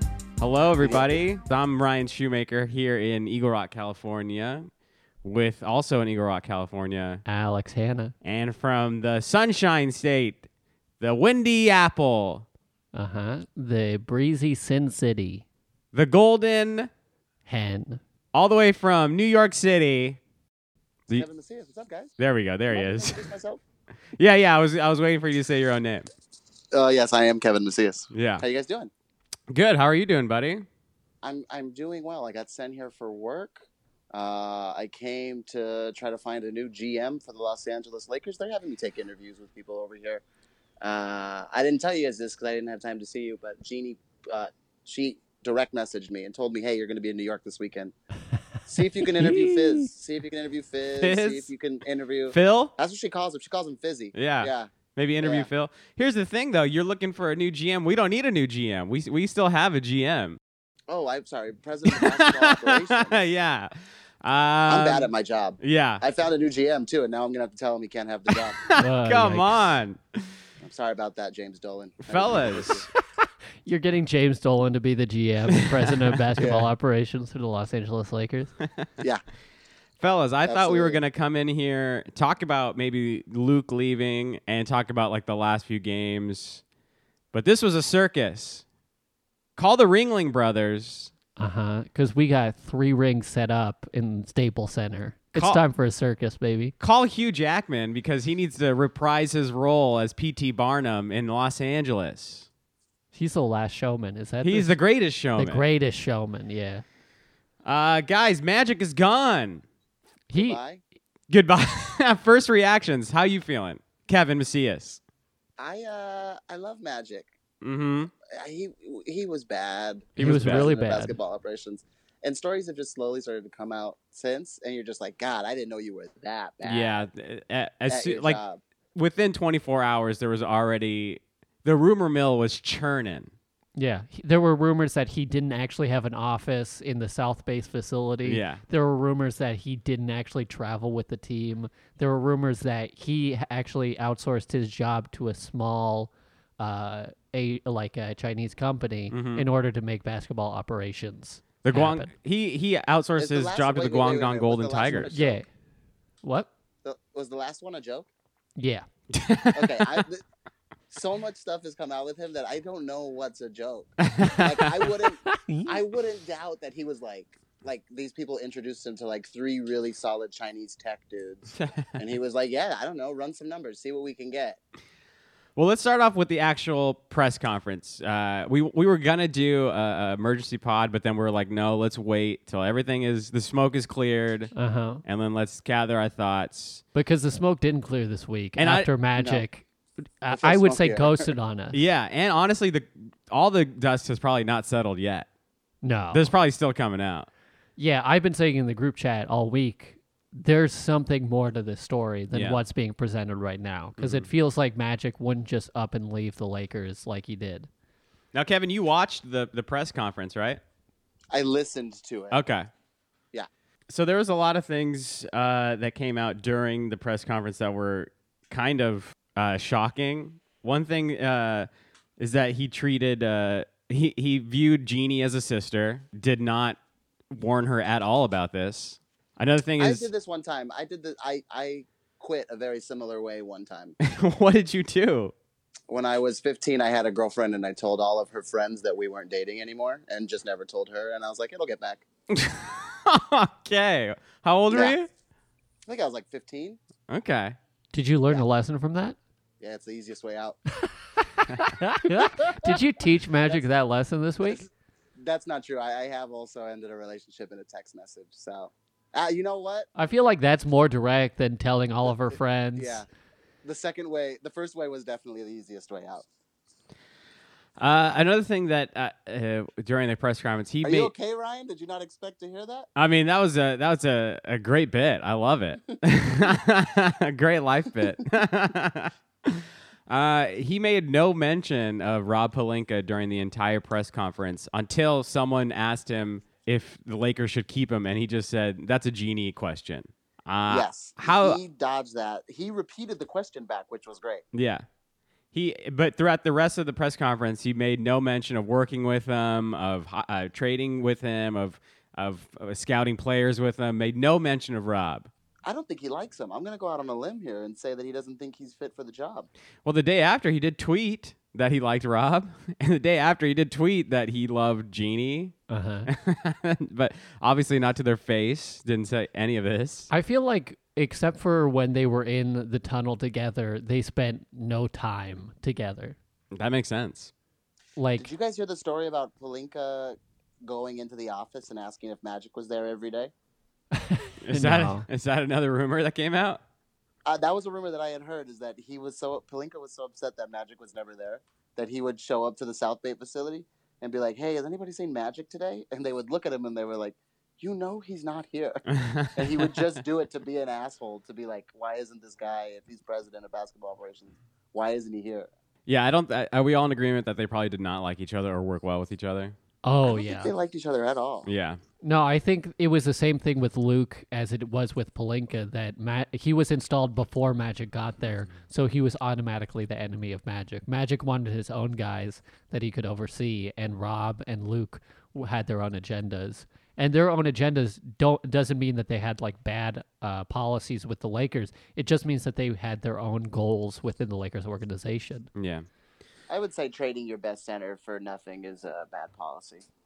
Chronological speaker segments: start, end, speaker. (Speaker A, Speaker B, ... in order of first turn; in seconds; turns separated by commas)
Speaker A: 0.4-4.7, Speaker B: 0.8-1.2, Speaker A: 5.2-7.2, Speaker C: 7.2-8.1, Speaker A: 8.2-10.5, Speaker A: 11.0-12.5, Speaker C: 12.9-15.4, Speaker A: 15.9-16.9, Speaker C: 17.5-18.0, Speaker A: 18.3-20.2, Speaker B: 21.1-22.1, Speaker A: 22.2-23.2, Speaker B: 22.7-23.6, Speaker A: 24.2-26.1, Speaker B: 26.7-28.9, Speaker A: 28.1-28.4, Speaker A: 29.5-30.7, Speaker B: 31.2-40.2, Speaker B: 40.8-47.9, Speaker B: 48.6-55.5, Speaker C: 49.2-49.9, Speaker A: 51.0-51.5, Speaker A: 52.3-52.7, Speaker A: 54.1-60.4, Speaker B: 60.9-63.3, Speaker A: 61.9-66.0, Speaker B: 64.7-68.6, Speaker A: 68.3-70.3, Speaker C: 68.8-69.7, Speaker B: 70.6-72.9, Speaker A: 72.1-72.9, Speaker C: 73.7-78.5, Speaker A: 75.6-75.9, Speaker B: 76.4-76.7, Speaker A: 80.0-86.6, Speaker B: 80.5-81.0, Speaker A: 87.3-88.7, Speaker A: 89.6-91.1, Speaker C: 91.4-96.7, Speaker A: 95.4-95.6, Speaker A: 96.8-102.5, Speaker C: 103.1-104.8, Speaker A: 104.4-105.6, Speaker C: 105.4-106.8, Speaker A: 107.7-109.6, Speaker C: 110.3-110.6, Speaker B: 110.3-110.8, Speaker A: 111.3-115.0, Speaker B: 115.6-117.3, Speaker A: 117.6-118.1, Speaker B: 118.2-127.0, Speaker C: 120.2-121.2, Speaker A: 120.2-120.7, Speaker A: 126.6-128.4, Speaker B: 127.9-128.6, Speaker A: 128.9-133.3, Speaker C: 133.8-152.1, Speaker A: 138.2-138.6, Speaker A: 149.1-149.4, Speaker A: 151.6-155.1, Speaker B: 153.2-155.4, Speaker C: 155.1-155.5, Speaker C: 156.2-156.5, Speaker B: 156.8-158.1, Speaker C: 158.6-158.8, Speaker A: 159.1-160.0, Speaker B: 159.5-160.2, Speaker B: 160.9-174.6, Speaker A: 164.0-165.0, Speaker C: 165.3-165.8, Speaker A: 171.6-172.0, Speaker A: 175.6-184.5, Speaker C: 184.6-185.0, Speaker A: 185.1-186.8, Speaker C: 186.9-191.8, Speaker A: 188.6-188.9, Speaker B: 189.2-189.4, Speaker B: 190.3-191.3, Speaker A: 191.7-195.3, Speaker C: 195.8-196.2, Speaker A: 196.1-197.3, Speaker C: 197.8-207.7, Speaker A: 202.3-202.6, Speaker A: 204.0-204.3, Speaker A: 208.3-210.6, Speaker B: 211.3-212.4, Speaker A: 212.3-212.7, Speaker A: 213.9-221.7, Speaker A: 222.2-226.8, Speaker A: 227.3-230.1, Speaker B: 229.8-234.0, Speaker A: 234.0-235.3, Speaker B: 235.9-242.1, Speaker A: 242.3-245.1, Speaker B: 244.7-245.0, Speaker B: 245.9-246.8, Speaker A: 247.1-247.6, Speaker C: 247.9-249.2, Speaker B: 249.6-250.6, Speaker C: 251.5-254.7, Speaker B: 252.2-252.7, Speaker B: 254.4-259.9, Speaker C: 260.0-263.0, Speaker B: 262.8-263.1, Speaker B: 263.6-266.3, Speaker A: 267.8-271.1, Speaker B: 270.8-272.9, Speaker A: 273.0-291.6, Speaker B: 290.7-294.4, Speaker A: 294.5-294.9, Speaker A: 295.5-305.3, Speaker B: 305.6-309.5, Speaker A: 309.9-315.6, Speaker C: 315.7-316.1, Speaker A: 316.1-320.1, Speaker C: 320.1-326.2, Speaker A: 326.5-327.3, Speaker C: 328.0-328.3, Speaker B: 328.2-333.3, Speaker C: 333.9-335.1, Speaker A: 334.4-336.6, Speaker B: 337.3-348.8, Speaker A: 348.9-349.8, Speaker B: 349.4-355.5, Speaker A: 355.9-359.6, Speaker C: 359.8-360.5, Speaker B: 360.0-361.5, Speaker A: 361.5-361.8, Speaker C: 362.0-385.5, Speaker A: 385.6-385.9, Speaker B: 386.5-389.9